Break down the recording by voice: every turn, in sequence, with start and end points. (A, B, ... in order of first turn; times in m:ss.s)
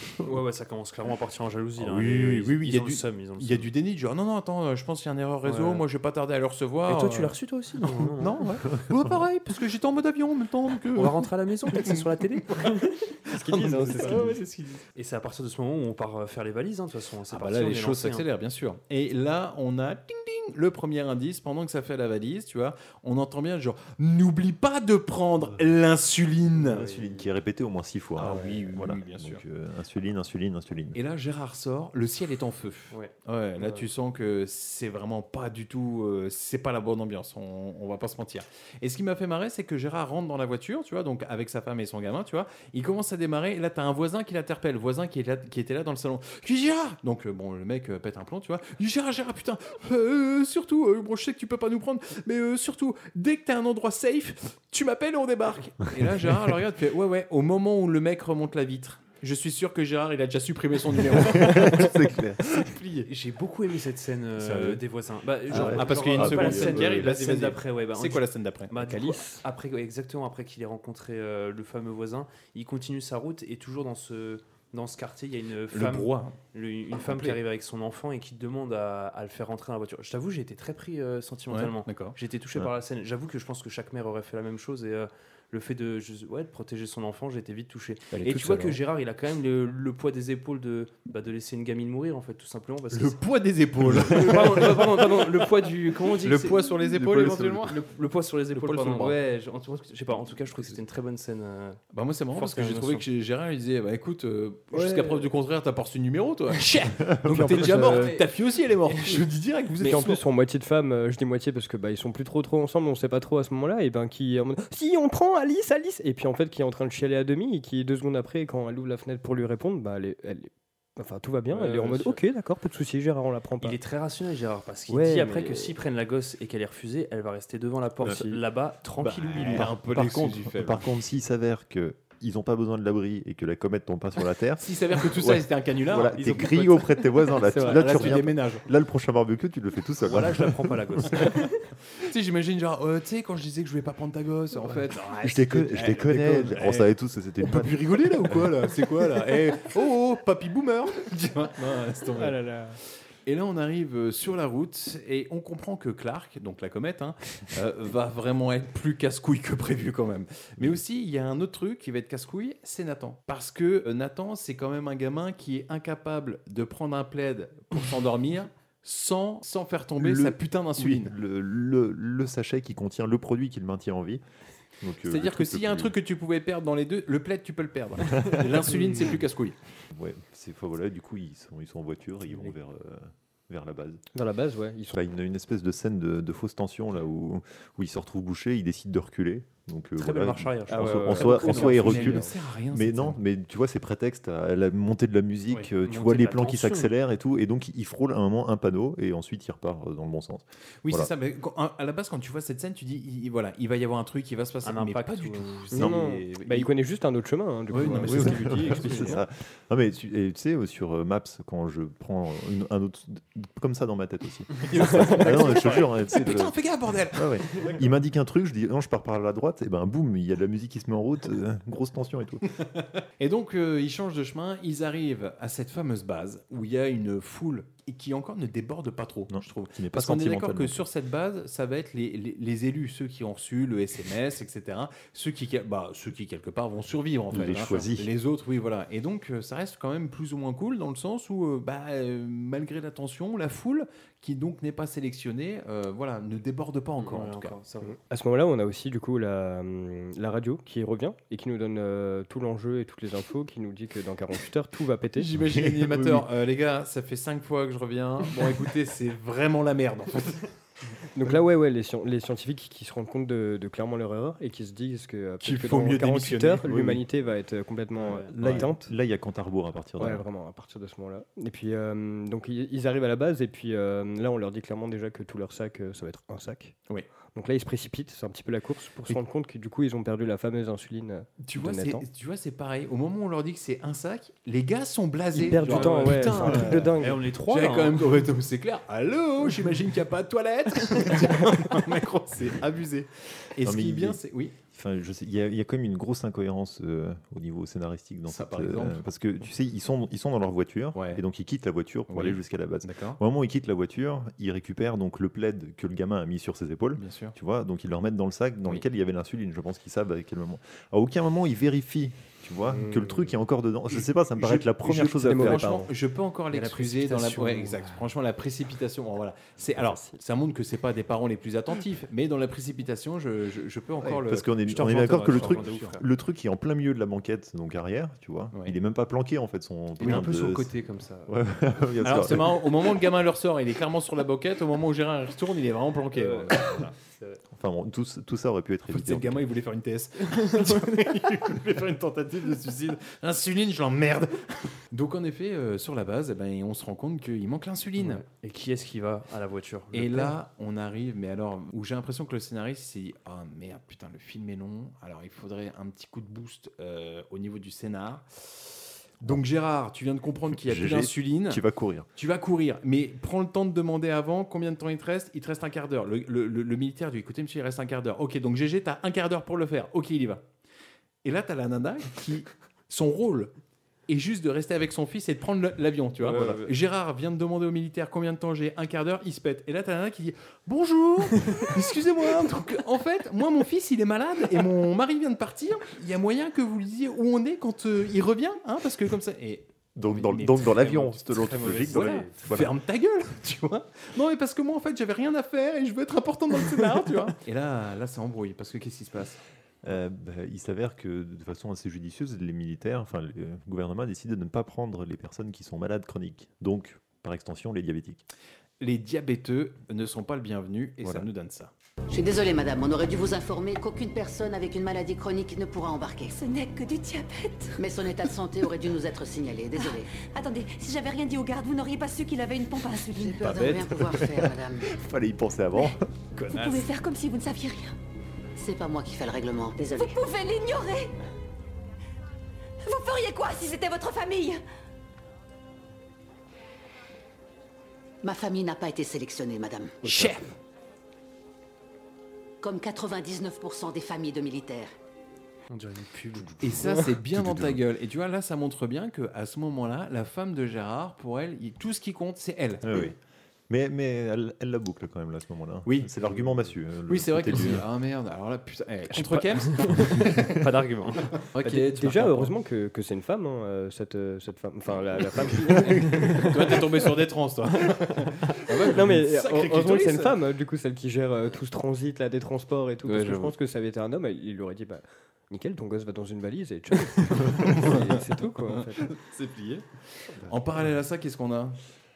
0:00.2-0:03.7 A
0:01.8-0:07.4 B
0:05.4-0:05.8 A
0:06.9-0:08.4 A
0:08.2-0:12.1 B
0:10.9-0:13.0 A
0:13.3-0:14.4 B
0:13.3-0:14.4 C
0:13.9-0:18.2 A
0:17.3-0:26.9 B
0:26.5-0:27.3 A
0:26.8-0:31.0 D
0:28.2-0:29.4 B
0:30.9-1:03.1 B
0:32.9-0:33.9 A
1:01.0-1:02.6 D
1:03.1-1:33.2 A
1:04.4-1:04.8 B
1:05.5-1:07.2 D
1:05.5-1:09.0 B
1:08.8-1:09.4 C
1:15.7-1:16.4 B
1:17.0-1:17.4 B
1:21.5-1:22.2 B
1:32.9-1:35.3 B
1:33.8-1:41.8 A
1:36.0-1:37.8 B
1:37.0-1:37.7 D
1:38.5-1:39.2 B
1:41.9-1:50.2 B
1:42.3-1:43.0 A
1:44.7-1:45.2 C
1:47.0-1:47.6 D
1:47.3-1:48.2 C
1:47.6-1:48.3 A
1:48.9-1:49.2 A
1:49.8-2:03.8 C
2:01.5-2:02.2 A
2:03.6-2:09.7 A
2:04.9-2:05.8 C
2:08.1-2:08.4 C
2:09.0-2:10.8 B
2:09.4-2:21.0 D
2:14.6-2:16.4 B
2:16.2-2:16.9 A
2:17.5-2:17.8 C
2:17.6-2:18.6 B
2:20.0-2:21.6 A
2:22.0-2:32.4 B
2:25.2-2:28.5 D
2:32.2-2:32.8 C
2:33.3-2:51.1 B
2:50.0-2:54.2 D
2:54.8-2:55.9 D
2:55.1-2:59.6 B
2:58.1-2:58.7 D
2:59.9-3:04.0 D
3:04.1-3:05.0 C
3:04.9-3:21.1 D
3:10.0-3:12.2 A
3:10.7-3:12.3 C
3:11.3-3:13.2 B
3:15.5-3:16.9 A
3:20.8-3:26.7 B
3:24.6-3:25.9 A
3:25.7-3:29.2 C
3:25.8-3:26.0 D
3:27.7-3:29.2 B
3:27.9-3:42.5 D
3:34.7-3:37.8 B
3:43.2-4:07.6 B
3:49.3-3:50.9 D
3:57.3-3:58.1 D
4:07.0-4:08.0 A
4:07.8-4:15.3 C
4:15.2-4:20.5 B
4:15.4-4:16.3 D
4:21.2-4:28.9 C
4:25.4-4:26.7 B
4:26.6-4:27.0 D
4:28.0-4:28.3 A
4:28.3-4:30.2 D
4:30.0-4:36.8 C
4:37.4-4:42.0 C
4:41.4-4:47.0 B
4:45.3-4:47.2 C
4:45.5-4:48.3 A
4:47.5-4:54.6 B
4:53.6-4:54.2 D
4:54.7-5:15.9 D
4:58.3-4:59.0 B
5:01.0-5:01.2 B
5:02.1-5:03.2 B
5:07.0-5:07.3 B
5:12.7-5:13.2 C
5:13.9-5:26.0 B
5:14.8-5:15.9 C
5:16.5-5:17.4 C
5:17.0-5:17.9 A
5:24.0-5:30.7 D
5:24.7-5:26.0 A
5:30.0-5:30.2 B
5:30.0-5:31.3 A
5:31.2-5:32.6 D
5:32.0-5:36.9 B
5:36.1-5:37.4 A
5:37.5-5:39.4 D
5:38.9-5:48.2 B
5:48.0-5:50.4 A
5:49.9-6:01.6 B
6:00.5-6:02.1 D
6:02.2-6:10.4 B
6:11.2-6:13.5 B
6:14.1-6:39.4 B
6:16.2-6:16.7 A
6:30.0-6:32.8 D
6:30.7-6:32.5 A
6:39.8-6:48.2 D
6:48.8-6:51.7 B
6:52.1-6:56.3 E
6:56.3-6:57.8 F
6:57.8-7:00.1 E
6:59.7-7:03.6 F
7:03.2-7:04.9 E
7:03.4-7:06.1 D
7:06.4-7:06.9 B
7:06.5-7:08.0 F
7:08.6-7:10.2 E
7:09.8-7:11.1 F
7:12.8-7:14.6 F
7:18.2-7:20.1 E
7:20.0-7:20.5 B
7:20.1-7:20.4 D
7:22.6-7:24.9 E
7:25.7-7:26.5 A
7:26.4-7:27.8 D
7:26.6-7:33.0 B
7:32.8-7:33.2 D
7:33.7-7:37.9 D
7:35.9-7:36.1 B
7:37.1-7:40.4 B
7:39.1-7:41.4 A
7:41.5-7:42.5 B
7:41.6-7:46.5 C
7:45.8-7:50.4 B
7:48.9-7:59.1 C
7:53.1-7:53.5 A
7:57.6-8:01.8 B